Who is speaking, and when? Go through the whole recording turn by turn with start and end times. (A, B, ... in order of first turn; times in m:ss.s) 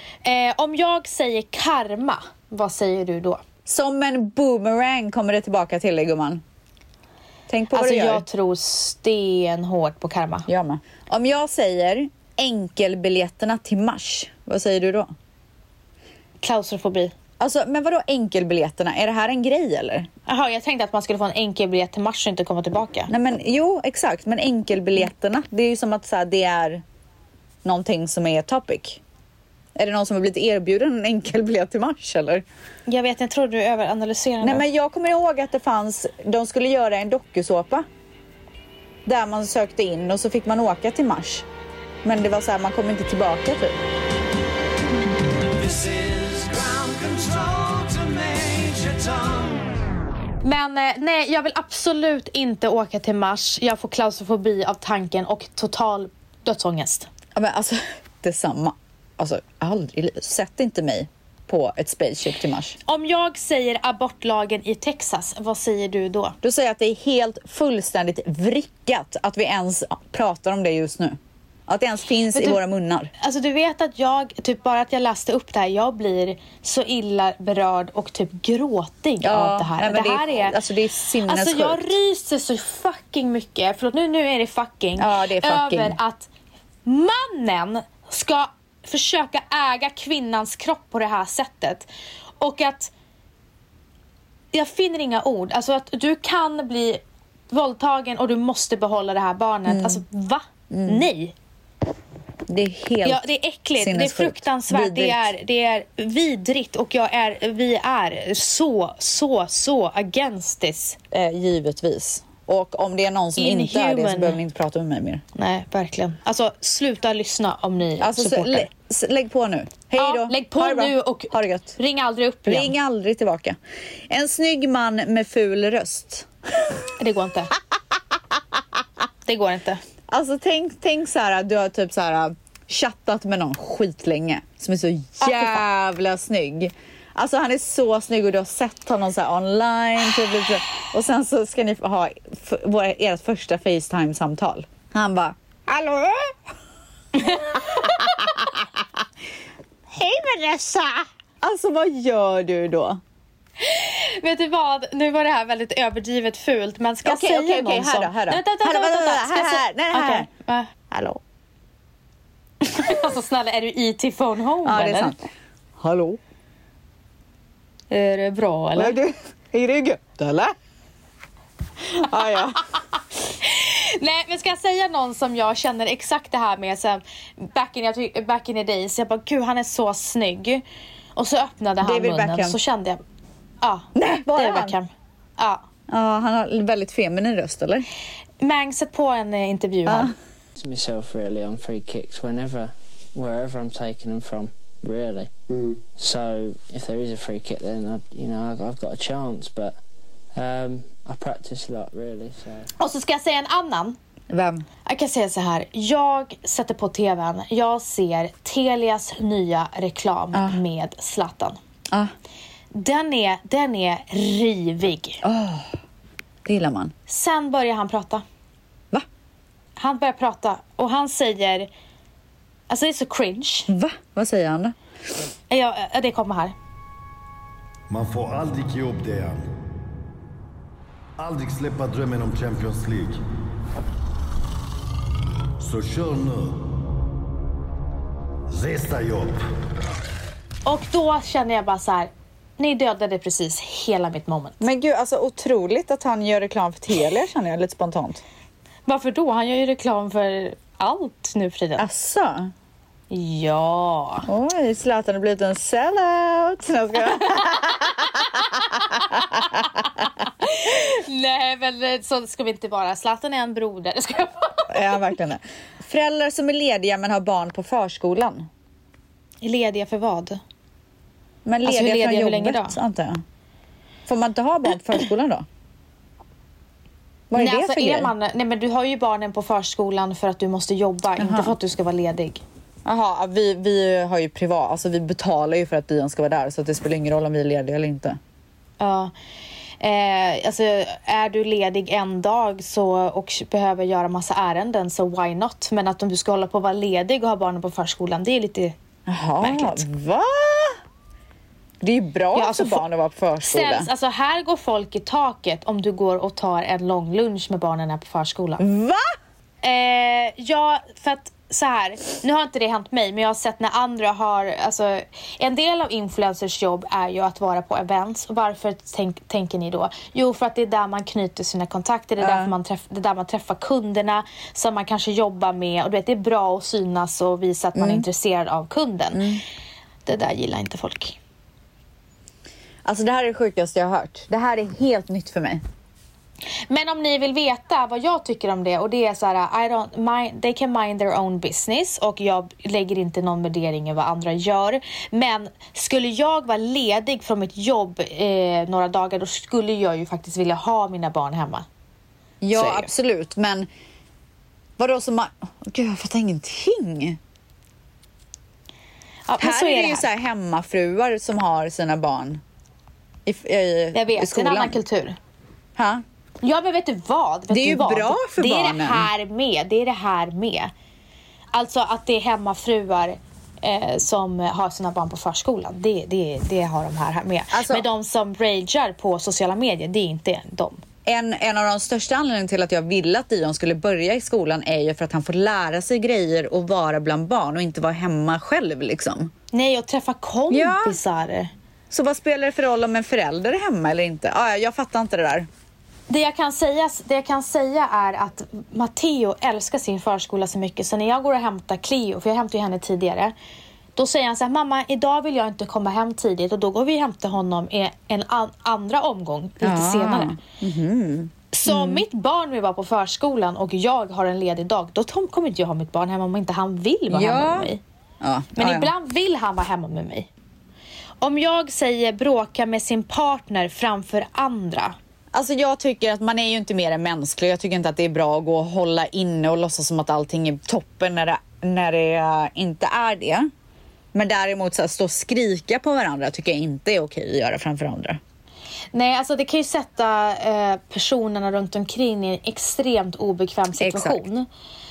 0:00.2-0:03.4 A
0:03.6-0:06.4 B
0:07.5-0:08.2 B
0:07.7-0:10.5 A
0:10.5-0:15.1 B
0:16.4-0:17.1 A
0:17.4-0:20.1 B
0:20.3-0:23.1 A
0:23.1-0:26.8 B
0:27.6-0:29.0 B
0:29.7-0:32.4 B
0:32.9-0:34.6 A
0:34.4-0:37.8 B
0:39.0-0:41.4 B
0:42.0-0:43.8 B
0:45.4-0:49.7 C
0:50.4-0:57.1 A
0:57.3-1:02.8 B
1:02.9-1:06.4 A
1:06.4-1:13.1 B
1:12.3-1:12.6 A
1:13.2-1:20.6 A
1:19.2-1:21.9 B
1:21.2-1:26.3 A
1:25.0-1:26.0 B
1:26.8-1:31.9 A
1:32.4-1:32.9 A
1:34.5-1:41.3 A
1:39.7-1:40.0 B
1:40.7-1:41.0 B
1:42.5-1:45.3 B
1:43.0-1:51.0 A
1:51.1-1:55.2 B
1:53.4-1:54.4 A
1:55.3-1:58.7 A
1:58.0-2:01.8 B
2:00.0-2:02.7 A
2:02.4-2:03.6 B
2:04.1-2:06.9 B
2:07.0-2:07.5 A
2:09.2-2:09.8 A
2:10.1-2:26.4 B
2:27.2-2:28.3 A
2:27.5-2:28.6 B
2:29.9-2:33.0 B
2:33.6-2:40.7 A
2:37.0-2:40.3 B
2:40.9-2:41.2 B
2:42.6-2:45.1 A
2:44.6-2:45.2 B
2:45.8-2:46.2 B
2:47.9-2:49.0 A
2:48.8-2:50.5 B
2:51.9-2:52.6 B
2:53.4-3:00.6 A
3:01.1-3:03.0 A
3:01.8-3:02.6 B
3:03.6-3:05.6 A
3:03.9-3:04.8 B
3:05.9-3:07.9 B
3:08.4-3:10.1 A
3:09.8-3:10.1 B
3:10.6-3:15.3 D
3:15.9-3:19.8 D
3:20.3-3:22.7 D
3:22.8-3:24.0 A
3:24.3-3:24.6 B
3:24.8-3:31.6 A
3:30.3-3:30.6 B
3:32.7-3:35.2 A
3:35.2-3:35.7 B
3:36.4-3:36.9 B
3:37.1-3:38.2 A
3:39.8-3:41.7 A
3:42.7-3:43.7 A
3:43.7-3:44.8 B
3:45.5-3:46.5 A
3:47.9-3:49.5 E
3:51.2-3:53.2 E
3:55.6-3:56.8 E
3:58.5-3:59.4 E
4:00.6-4:04.6 A
4:04.6-4:08.2 B
4:08.9-4:11.8 A
4:11.8-4:12.5 B
4:13.1-4:14.3 A
4:14.3-4:20.0 B
4:18.4-4:19.6 A
4:20.2-4:25.0 A
4:24.7-4:28.5 B
4:29.4-4:30.4 A
4:31.4-4:33.2 B
4:31.6-4:32.8 A
4:34.1-4:35.4 B
4:37.3-4:38.1 B
4:37.4-4:42.4 A
4:41.2-4:41.5 B
4:42.8-4:48.2 B
4:48.8-4:49.1 A
4:49.8-4:58.7 A
4:59.1-5:00.8 B
4:59.4-4:59.8 A
5:01.8-5:03.9 B
5:02.3-5:02.8 A
5:03.4-5:08.6 A
5:08.6-5:09.1 B
5:09.6-5:29.3 A
5:22.2-5:22.5 B
5:27.8-5:28.0 B
5:29.1-5:29.4 B
5:30.0-5:31.2 A
5:32.8-5:35.6 B
5:36.7-5:51.6 A
5:52.4-5:53.7 B
5:52.5-5:52.9 A
5:54.8-5:57.2 B
5:59.3-6:00.1 A
5:59.4-6:02.4 B
6:03.2-6:04.8 B
6:03.9-6:05.2 A
6:05.8-6:06.0 B
6:06.4-6:10.7 A
6:07.5-6:09.1 B
6:11.5-6:20.8 A
6:17.5-6:17.8 B
6:21.0-6:29.3 B
6:29.5-6:31.5 A
6:30.5-6:31.0 B
6:31.9-6:35.5 B
6:36.1-6:43.3 A
6:44.0-6:50.4 A
6:49.6-6:52.0 B
6:51.5-6:57.8 A
6:57.1-6:57.7 B
6:58.2-6:58.9 B
6:58.6-7:00.3 A
7:01.2-7:05.0 A
7:05.3-7:13.5 B
7:14.1-7:18.2 B
7:18.9-7:24.5 A
7:23.8-7:24.2 B